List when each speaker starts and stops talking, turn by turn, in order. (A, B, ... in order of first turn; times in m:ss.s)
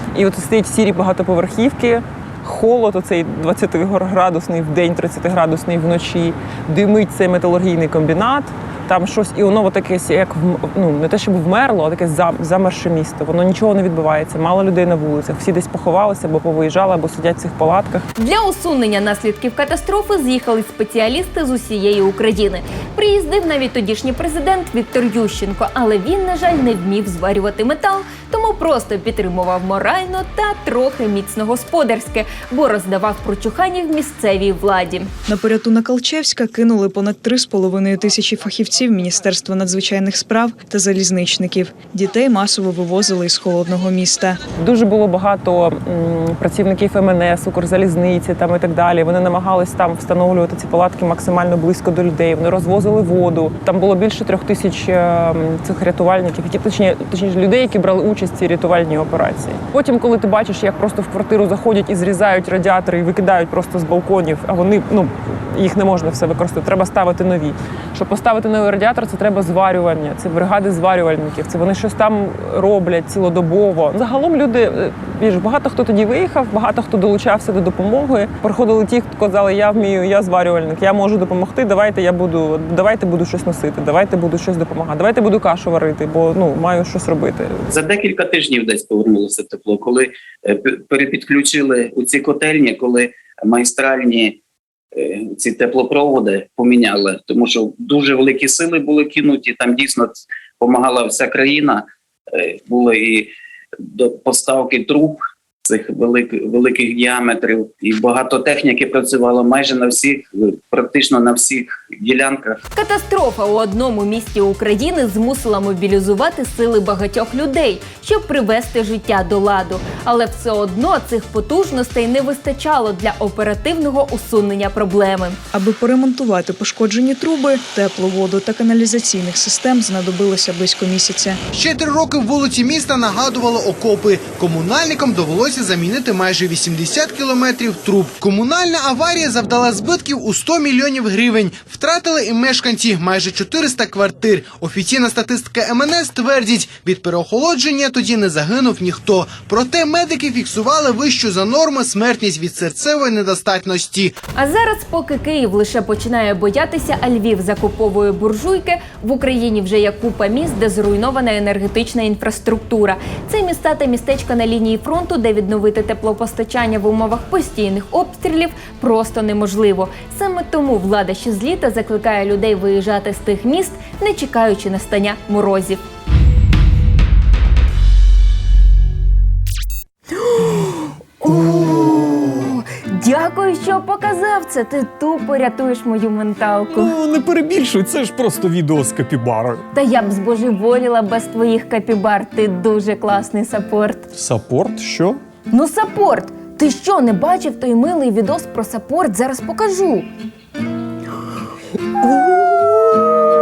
0:00.1-0:18.1 A
0:18.2-0:35.1 B
0:35.3-0:44.4 C
0:44.6-1:27.5 A
1:27.7-1:34.4 D
1:35.0-1:52.6 D
1:52.7-2:05.4 B
2:05.5-2:11.4 C
2:11.5-2:34.1 E
2:34.4-2:55.8 B
3:00.3-3:07.0 B
3:06.8-3:09.6 F
3:09.7-3:14.1 B
3:14.2-3:15.2 F
3:15.5-3:20.1 B
3:22.0-3:23.1 B